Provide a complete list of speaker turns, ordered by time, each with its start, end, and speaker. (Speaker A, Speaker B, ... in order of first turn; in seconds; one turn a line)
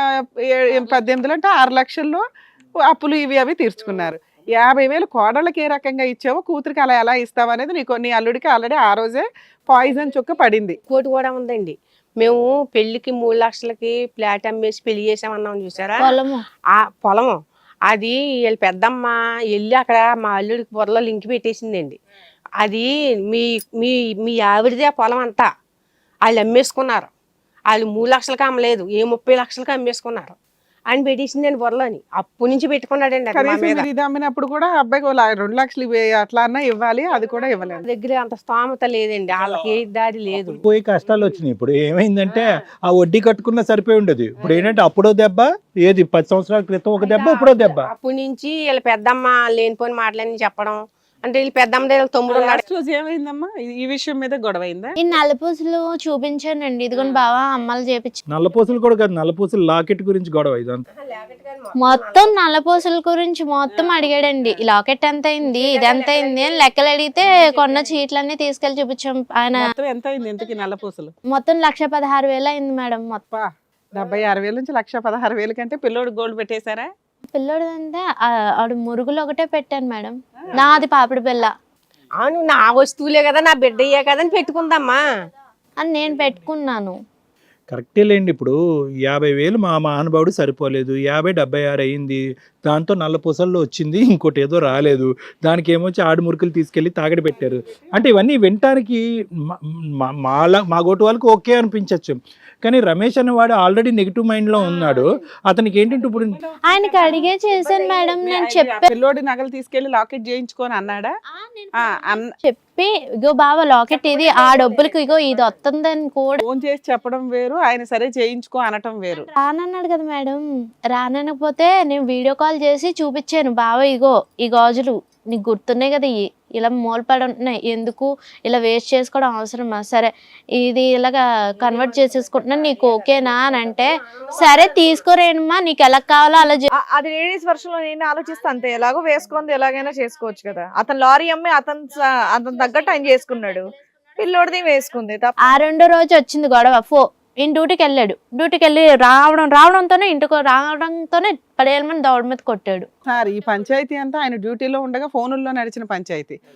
Speaker A: 0.5-2.2
Speaker A: 2.9-10.8
Speaker B: 10.9-16.1
Speaker C: 16.0-16.4
Speaker B: 16.8-17.3
Speaker B: 17.9-22.0
Speaker B: 22.6-25.5
Speaker B: 26.2-27.1
Speaker B: 27.7-30.3
Speaker B: 30.9-33.9
Speaker A: 33.3-37.8
Speaker B: 37.8-40.6
Speaker D: 39.4-39.7
Speaker D: 40.4-47.9
Speaker B: 44.4-44.7
Speaker B: 47.0-52.6
Speaker A: 52.3-55.0
Speaker C: 55.0-58.2
Speaker D: 58.3-60.8
Speaker B: 61.0-62.3
Speaker C: 61.8-69.6
Speaker A: 63.7-64.0
Speaker B: 65.4-66.7
Speaker B: 67.3-67.9
Speaker A: 69.6-71.1
Speaker C: 71.3-73.2
Speaker A: 73.3-76.9
Speaker C: 77.3-81.5
Speaker B: 82.2-85.0
Speaker C: 85.8-86.9
Speaker D: 87.7-99.0
Speaker D: 100.1-106.4
Speaker A: 104.7-105.0
Speaker A: 105.9-107.2
Speaker C: 106.7-108.9
Speaker A: 108.2-111.1
Speaker C: 111.3-116.4
Speaker A: 111.8-112.3
Speaker B: 113.9-115.5
Speaker A: 116.4-119.3
Speaker C: 119.1-120.4
Speaker C: 120.9-136.7
Speaker B: 131.6-135.0
Speaker E: 136.7-145.3
Speaker C: 145.4-152.9
Speaker A: 153.1-156.3